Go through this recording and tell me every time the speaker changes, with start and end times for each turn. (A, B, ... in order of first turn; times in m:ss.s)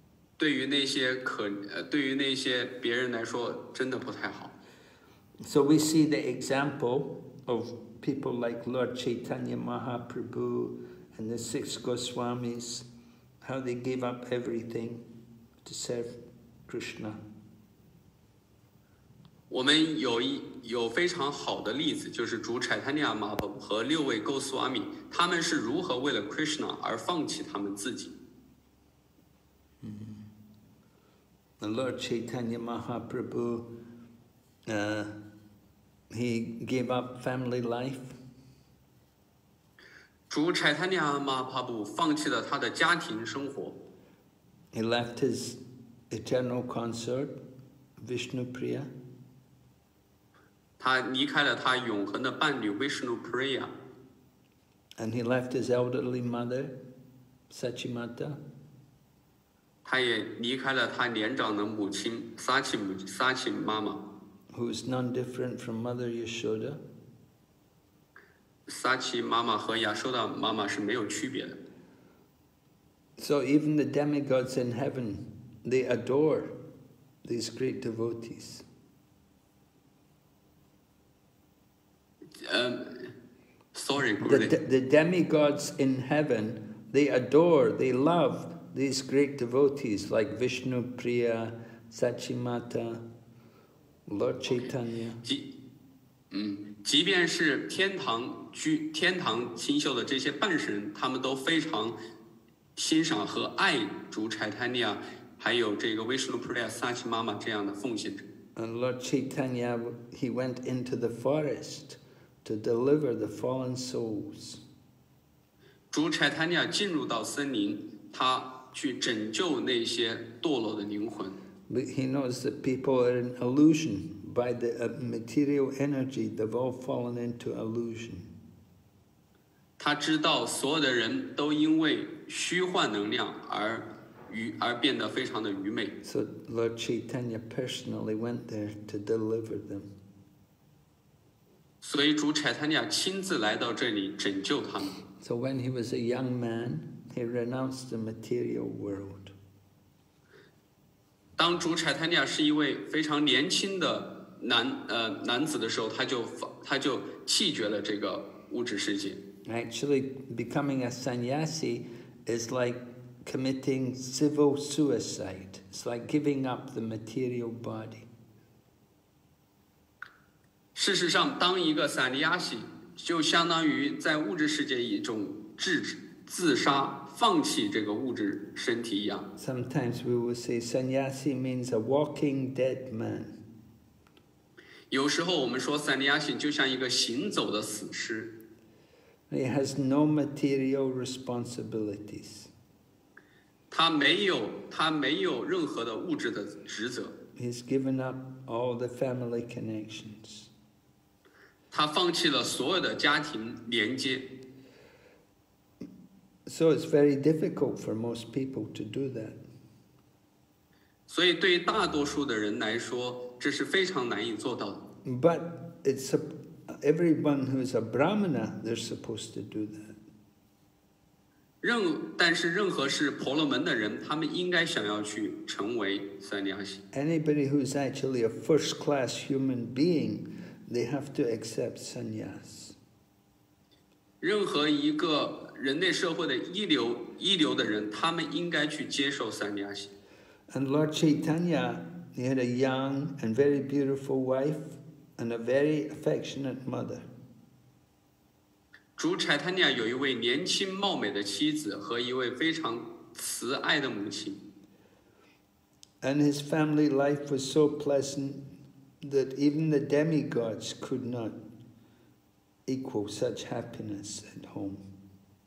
0:00.4-0:04.5 A
0:05.4-0:12.9 B
0:13.4-0:15.0 B
0:15.6-0:17.2 B
0:19.5-0:28.1 A
0:29.8-0:30.2 B
0:31.6-0:33.7 B
0:34.7-0:35.2 B
0:36.1-0:38.2 B
0:40.3-0:43.8 A
0:44.7-0:47.4 B
0:48.0-0:48.9 B
0:50.8-0:53.7 A
0:55.0-0:56.8 B
0:57.5-0:58.4 B
0:59.8-1:04.0 A
1:04.5-1:06.8 B
1:08.7-1:11.6 A
1:13.2-1:16.6 B
1:17.2-1:18.6 B
1:22.4-1:23.1 A
1:23.7-1:24.5 A
1:24.2-1:33.0 B
1:34.0-1:35.2 B
1:36.3-1:42.0 A
1:42.8-1:48.2 A
1:48.6-1:54.6 B
1:55.9-2:01.4 A
2:01.7-2:08.3 B
2:09.8-2:15.9 A
2:16.0-2:19.9 B
2:21.8-2:25.0 A
2:25.2-2:29.3 B
2:31.4-2:39.2 A
2:39.5-2:48.1 B
2:50.7-2:59.3 A
2:59.4-3:03.4 B
3:04.9-3:08.3 A
3:09.3-3:12.5 B
3:13.7-3:17.1 A
3:17.3-3:20.5 B
3:21.7-3:24.3 A
3:26.5-3:29.4 B
3:31.1-3:34.8 A
3:35.0-3:40.0 B
3:41.6-3:46.8 A
3:46.9-3:52.8 B
3:54.2-3:59.9 A
4:00.5-4:07.0 B
4:09.0-4:14.4 A
4:16.0-4:18.5 B
4:19.0-4:21.4 B
4:22.7-4:24.8 B